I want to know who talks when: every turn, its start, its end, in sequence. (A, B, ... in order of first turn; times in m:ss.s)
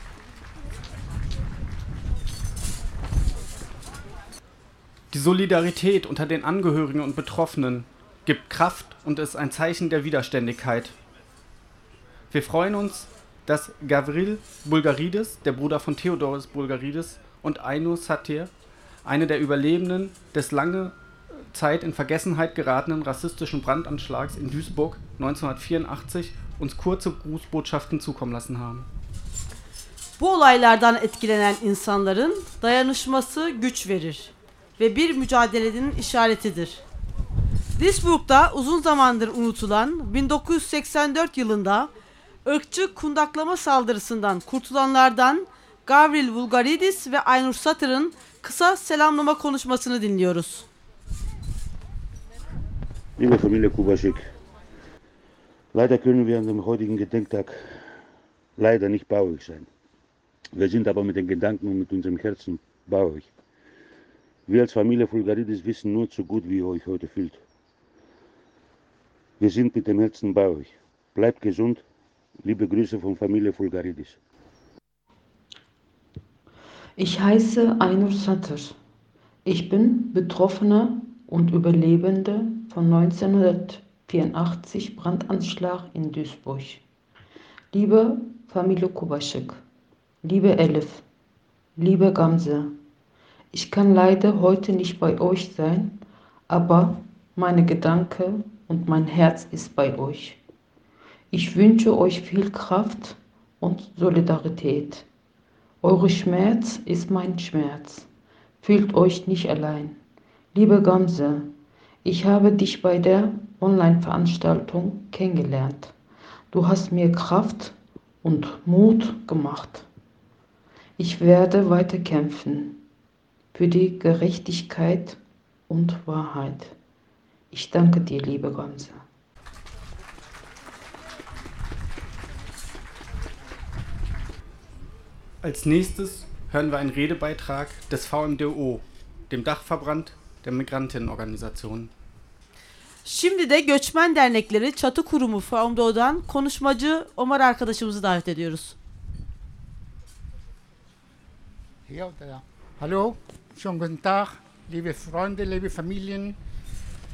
0:05.1-0:10.9 A
0:12.3-0:18.5 A
0:19.0-0:28.9 A
0:30.2-0:36.8 B
0:37.8-0:41.9 B
0:42.4-0:50.7 B
0:53.2-0:54.3 C
0:55.7-0:57.8 C
0:58.6-0:59.7 C
1:00.5-1:03.3 C
1:04.5-1:07.4 C
1:09.4-1:11.8 C
1:12.4-1:14.2 C
1:17.0-1:18.8 D
1:19.4-1:26.8 D
1:27.7-1:29.6 D
1:30.2-1:31.0 D
1:31.8-1:32.8 D
1:33.5-1:40.4 D
1:41.3-1:45.0 D
1:45.8-1:48.1 D
1:48.6-1:50.0 D
1:50.5-1:55.9 D
1:56.5-1:59.9 D
2:01.0-2:02.8 D
2:03.5-2:06.7 D
2:07.5-2:09.0 D
2:15.4-2:21.9 A
2:23.0-2:28.7 B
2:31.9-2:36.4 E